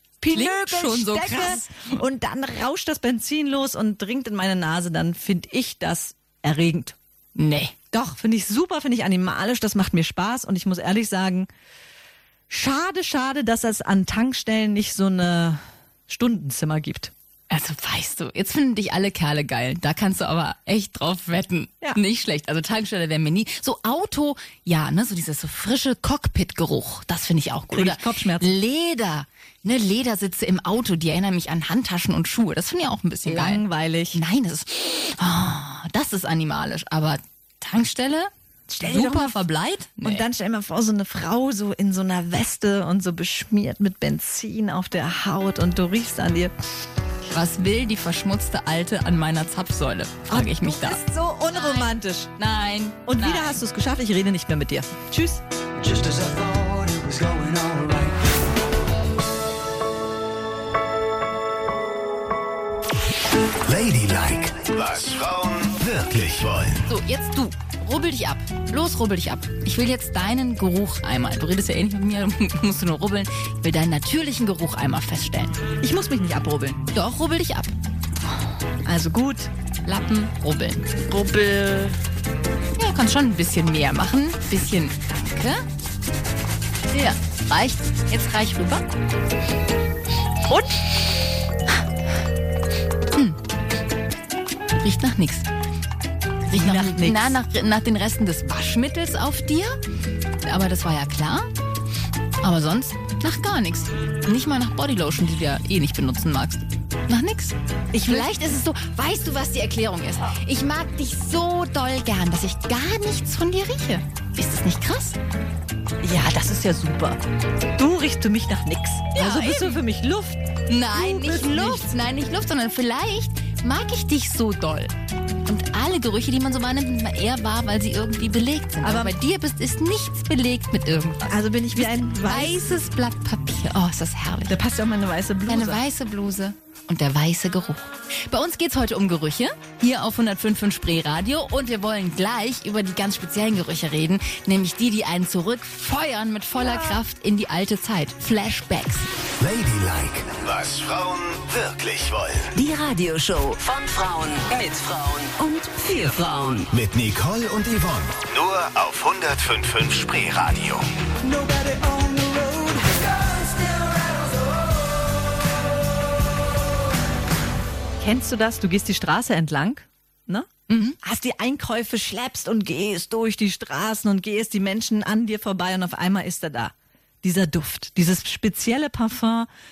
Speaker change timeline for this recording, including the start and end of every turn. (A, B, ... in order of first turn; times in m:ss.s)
0:00.2-0:07.0 A
0:00.3-0:02.0 B
0:07.4-0:07.8 B
0:07.9-0:11.5 A
0:12.5-0:17.1 A
0:17.5-0:38.3 B
0:27.7-0:28.5 A
0:33.2-0:34.2 A
0:38.7-0:39.4 A
0:38.8-0:40.2 B
0:40.0-0:46.5 A
0:47.3-0:51.0 B
0:50.3-0:52.3 A
0:51.5-0:53.6 B
0:53.1-0:55.4 A
0:55.8-0:58.3 C
1:03.6-1:06.9 D
1:06.9-1:15.6 B
1:15.8-1:16.8 A
1:16.9-1:17.7 B
1:18.8-1:19.5 A
1:19.9-1:21.0 B
1:21.1-1:22.0 A
1:22.8-1:25.6 B
1:26.9-1:28.8 B
1:30.5-1:30.7 A
1:33.1-1:33.4 B
1:34.7-1:35.5 B
1:36.5-1:37.4 A
1:36.5-1:39.8 B
1:40.4-1:41.5 B
1:42.4-1:55.2 B
1:47.9-1:48.3 A
1:56.0-1:57.2 A
1:57.8-2:00.4 A
1:59.2-1:59.8 B
2:00.7-2:04.9 B
2:00.9-2:01.9 A
2:05.4-2:14.6 B
2:08.8-2:09.2 A
2:11.3-2:12.8 A
2:14.5-2:15.8 A
2:15.5-2:29.1 B
2:26.7-2:27.0 A
2:29.4-2:32.5 D
2:32.6-2:36.7 E
2:36.7-2:40.9 D
2:41.2-2:44.6 C
2:48.0-2:50.5 A
2:50.7-2:51.0 B
2:51.0-2:59.5 A